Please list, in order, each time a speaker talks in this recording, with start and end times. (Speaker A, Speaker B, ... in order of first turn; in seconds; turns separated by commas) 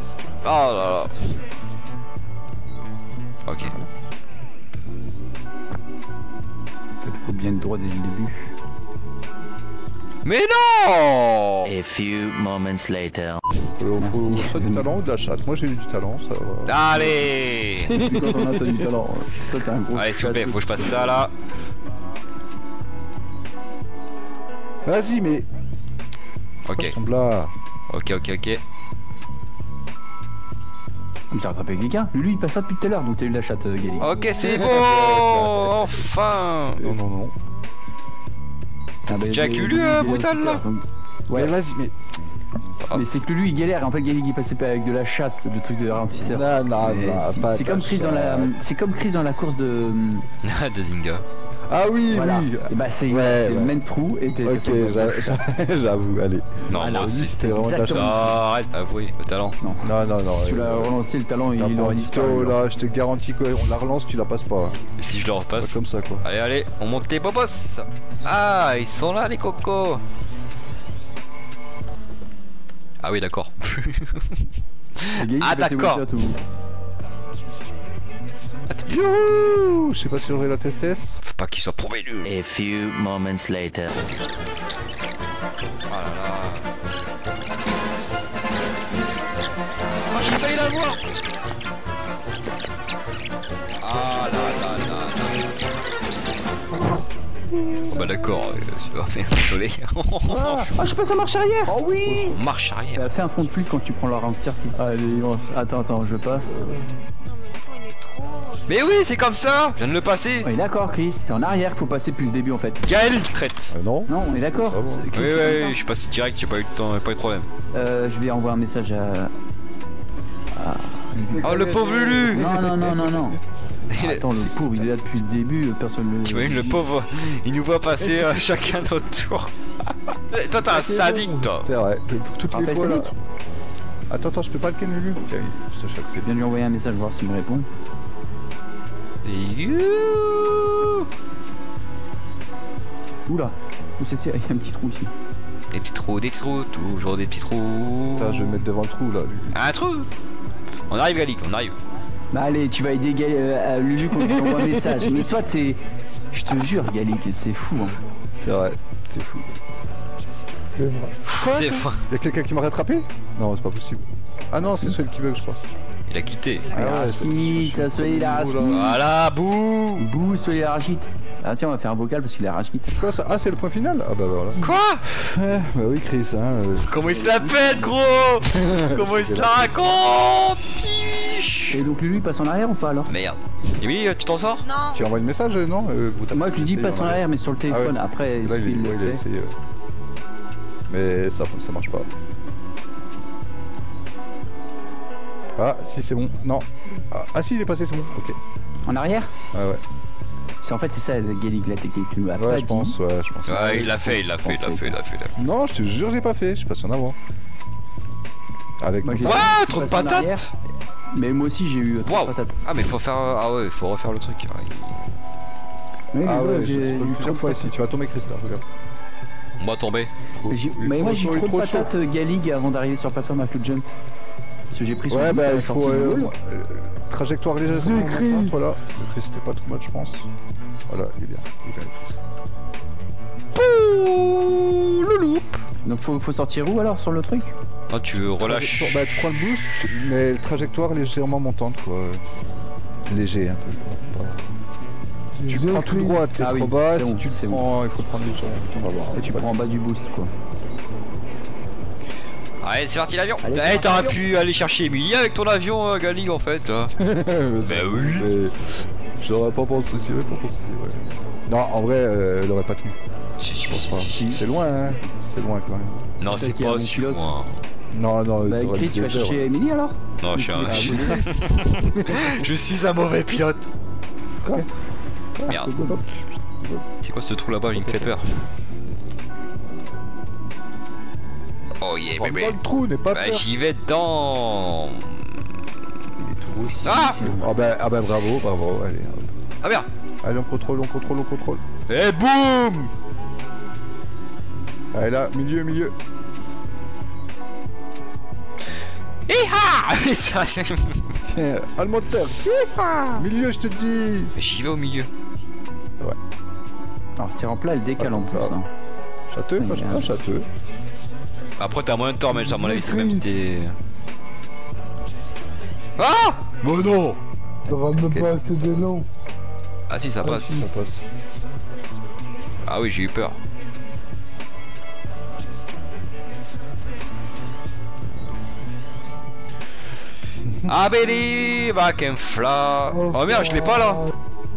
Speaker A: 0.4-1.1, Speaker A: 3.5-3.8, Speaker B: 7.0-8.5, Speaker A: 10.2-11.7, Speaker C: 11.7-13.4, Speaker D: 13.8-17.0, Speaker B: 14.0-14.9, Speaker A: 16.7-17.9, Speaker D: 17.8-18.9, Speaker B: 17.8-20.9, Speaker A: 19.9-21.3, Speaker D: 24.9-25.5, Speaker A: 26.7-27.0, Speaker D: 26.7-27.5, Speaker A: 27.9-28.6, Speaker B: 31.3-34.2, Speaker A: 34.0-37.0, Speaker D: 34.4-36.0, Speaker D: 36.8-37.4, Speaker A: 39.1-40.6, Speaker B: 39.1-41.5, Speaker D: 41.3-41.9, Speaker B: 42.9-50.3, Speaker D: 46.2-48.5, Speaker A: 50.4-51.2, Speaker D: 51.7-53.8, Speaker B: 52.1-55.4, Speaker D: 54.4-58.3, Speaker A: 56.7-59.6, Speaker B: 56.7-58.4, Speaker B: 59.6-62.6, Speaker D: 59.8-60.9, Speaker D: 61.5-64.8, Speaker A: 65.0-70.0, Speaker D: 65.6-66.2, Speaker A: 73.0-74.4, Speaker A: 75.0-76.0, Speaker B: 75.2-76.4, Speaker A: 78.7-79.0, Speaker D: 78.9-81.2, Speaker A: 81.2-82.3, Speaker C: 82.2-83.9, Speaker A: 85.9-86.7, Speaker A: 90.1-91.0, Speaker A: 93.8-95.5, Speaker A: 97.9-100.8, Speaker B: 100.3-102.4, Speaker D: 102.0-102.4, Speaker A: 102.3-103.1, Speaker B: 103.0-106.7, Speaker E: 107.2-109.3, Speaker A: 108.7-110.5, Speaker B: 110.4-112.8, Speaker A: 112.8-113.7, Speaker D: 113.7-115.1, Speaker B: 114.1-115.8, Speaker A: 115.1-117.5, Speaker B: 117.7-119.3, Speaker B: 120.5-121.5, Speaker D: 121.1-123.3, Speaker A: 121.4-122.5, Speaker B: 122.3-123.4, Speaker A: 123.9-124.8, Speaker B: 124.0-126.8, Speaker A: 126.2-129.5, Speaker A: 130.3-131.7, Speaker D: 130.7-133.2, Speaker B: 132.5-133.1, Speaker D: 134.1-136.3, Speaker B: 136.2-137.7, Speaker A: 139.2-141.1, Speaker B: 143.3-145.1, Speaker A: 145.7-148.6, Speaker D: 148.2-149.6, Speaker A: 149.5-150.1, Speaker A: 150.9-151.7, Speaker B: 152.3-158.0, Speaker D: 154.3-154.7, Speaker D: 158.4-159.5, Speaker F: 160.8-161.2, Speaker A: 161.3-162.0, Speaker D: 162.1-165.6, Speaker A: 166.1-166.7, Speaker E: 166.6-166.9, Speaker D: 166.7-168.9, Speaker B: 166.7-169.0, Speaker A: 168.7-170.1, Speaker B: 170.0-173.0, Speaker D: 172.9-176.9, Speaker A: 174.6-175.0, Speaker A: 176.8-181.8, Speaker B: 177.1-177.9, Speaker D: 178.6-180.1, Speaker B: 181.7-183.1, Speaker A: 183.1-184.7, Speaker E: 184.7-185.1, Speaker D: 184.9-189.6, Speaker B: 186.3-189.2, Speaker D: 190.9-192.1, Speaker D: 195.6-198.4, Speaker B: 198.9-199.3, Speaker D: 199.5-199.8, Speaker B: 200.6-203.0, Speaker D: 202.3-203.9, Speaker A: 203.5-205.3, Speaker B: 203.5-205.0, Speaker D: 205.4-207.2, Speaker D: 208.8-209.5, Speaker B: 209.0-210.5, Speaker A: 209.2-210.5, Speaker B: 211.1-212.6, Speaker A: 212.1-215.0, Speaker B: 216.1-217.7, Speaker D: 216.2-218.6, Speaker A: 219.6-220.1, Speaker D: 220.4-221.9, Speaker B: 220.5-223.9, Speaker B: 224.7-226.3, Speaker D: 225.1-230.3, Speaker F: 227.7-228.6, Speaker D: 230.9-232.3, Speaker A: 233.6-235.6, Speaker B: 235.8-237.5, Speaker A: 237.9-239.0, Speaker D: 238.3-242.3, Speaker D: 243.1-244.5, Speaker F: 245.4-246.3, Speaker D: 245.5-249.6, Speaker B: 246.4-247.7, Speaker B: 249.1-250.3, Speaker A: 252.6-256.9, Speaker B: 253.4-254.2, Speaker D: 256.9-258.6, Speaker A: 257.6-258.3, Speaker D: 259.2-263.0, Speaker A: 263.4-264.6, Speaker D: 263.7-266.1, Speaker B: 264.1-265.0, Speaker A: 266.2-267.6, Speaker B: 266.3-267.4, Speaker D: 267.9-269.4, Speaker B: 268.4-271.3, Speaker A: 270.2-273.7, Speaker D: 270.6-271.4, Speaker D: 275.4-276.8, Speaker B: 275.5-276.2, Speaker A: 277.0-278.3, Speaker D: 277.7-278.2, Speaker A: 281.8-282.6, Speaker D: 282.2-283.5, Speaker A: 283.1-285.2, Speaker D: 286.2-289.3, Speaker B: 286.7-287.6, Speaker A: 286.8-287.2, Speaker A: 289.6-289.9, Speaker D: 290.2-291.6, Speaker A: 291.9-292.9, Speaker D: 294.9-295.9, Speaker A: 299.3-301.1, Speaker D: 301.2-304.3, Speaker A: 304.4-305.1, Speaker B: 307.2-308.7, Speaker D: 308.0-308.6, Speaker D: 309.3-310.5, Speaker B: 309.6-310.1, Speaker A: 311.6-313.8, Speaker F: 312.3-313.3, Speaker A: 316.0-317.2, Speaker F: 317.7-319.1, Speaker D: 317.8-318.4, Speaker A: 319.9-320.7, Speaker D: 320.2-321.1, Speaker F: 320.2-320.7, Speaker A: 322.6-323.4, Speaker A: 330.7-334.1, Speaker F: 332.9-334.1